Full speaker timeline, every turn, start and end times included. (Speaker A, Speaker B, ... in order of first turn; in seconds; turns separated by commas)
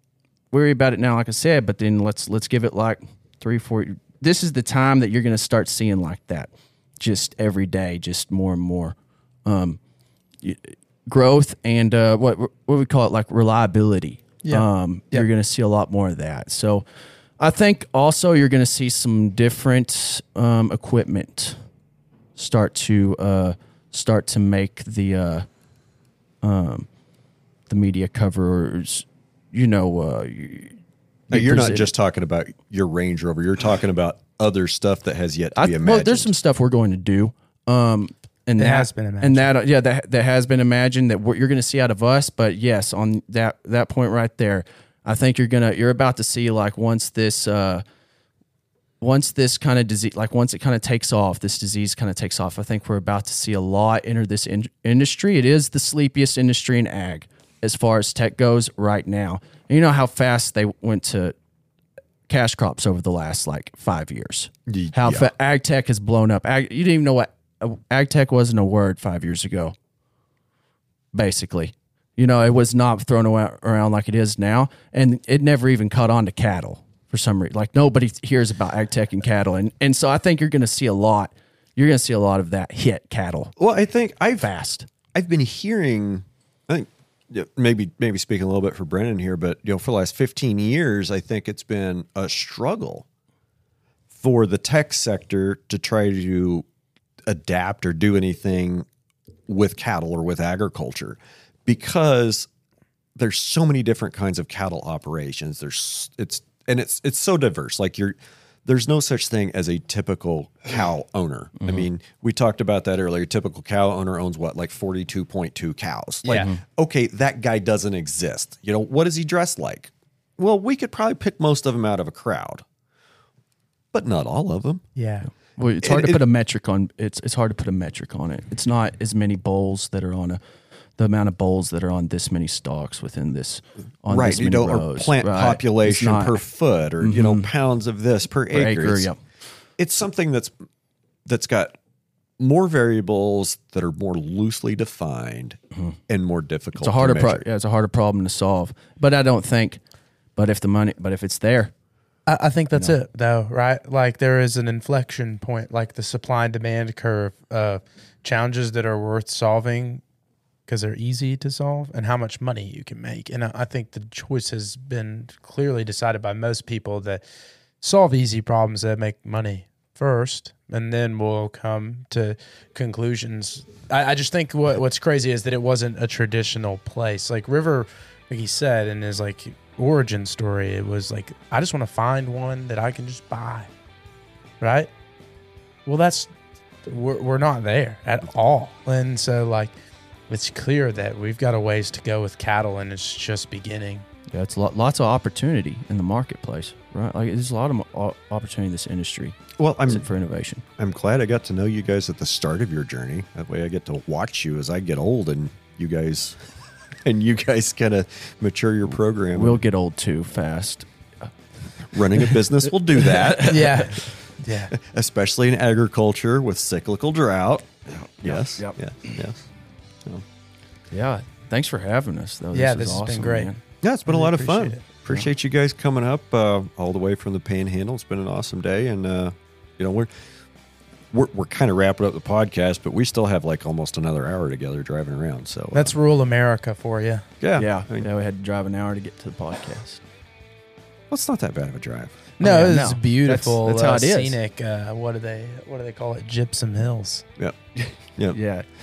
Speaker A: 0.5-9.8, Speaker A: 10.4-16.8, Speaker B: 14.4-15.2, Speaker A: 17.4-21.6, Speaker A: 22.4-25.4, Speaker A: 26.4-26.9, Speaker A: 27.7-30.8, Speaker C: 31.3-36.3, Speaker A: 31.3-31.9, Speaker A: 35.5-47.8, Speaker B: 38.6-39.5, Speaker A: 49.0-61.3, Speaker A: 62.3-69.7, Speaker C: 64.7-65.3, Speaker A: 71.1-83.5, Speaker C: 83.6-84.5, Speaker A: 84.4-84.9, Speaker C: 85.1-93.0, Speaker C: 94.1-96.6, Speaker C: 97.3-98.8, Speaker C: 99.5-102.5, Speaker C: 103.2-122.6, Speaker A: 111.6-111.8, Speaker B: 116.2-116.5, Speaker C: 123.9-124.8, Speaker B: 124.9-125.3, Speaker A: 125.5-130.4, Speaker C: 125.8-126.2, Speaker A: 131.0-136.4, Speaker C: 134.1-139.1, Speaker A: 137.0-137.5, Speaker A: 138.5-139.2, Speaker C: 139.8-140.5, Speaker C: 141.2-141.8, Speaker C: 142.4-147.4, Speaker A: 146.8-149.8, Speaker A: 150.4-151.7, Speaker B: 152.3-160.0, Speaker B: 160.7-167.2, Speaker B: 167.8-183.7, Speaker B: 184.6-184.9, Speaker B: 185.8-186.3, Speaker B: 186.8-189.7, Speaker B: 190.3-194.0, Speaker A: 194.3-200.6, Speaker C: 199.6-200.0, Speaker C: 200.8-206.4, Speaker C: 207.0-209.6, Speaker A: 209.3-211.3, Speaker C: 211.9-213.8, Speaker A: 212.1-212.4, Speaker A: 212.9-214.1, Speaker B: 213.4-214.7, Speaker C: 214.7-219.4, Speaker A: 217.9-218.8, Speaker A: 220.9-223.6, Speaker B: 222.5-224.8, Speaker C: 223.8-230.1, Speaker C: 231.1-235.9, Speaker B: 235.7-237.2, Speaker C: 237.4-238.1, Speaker A: 237.6-240.0, Speaker C: 241.1-242.1, Speaker B: 242.4-247.2, Speaker A: 242.4-244.4, Speaker A: 247.8-248.7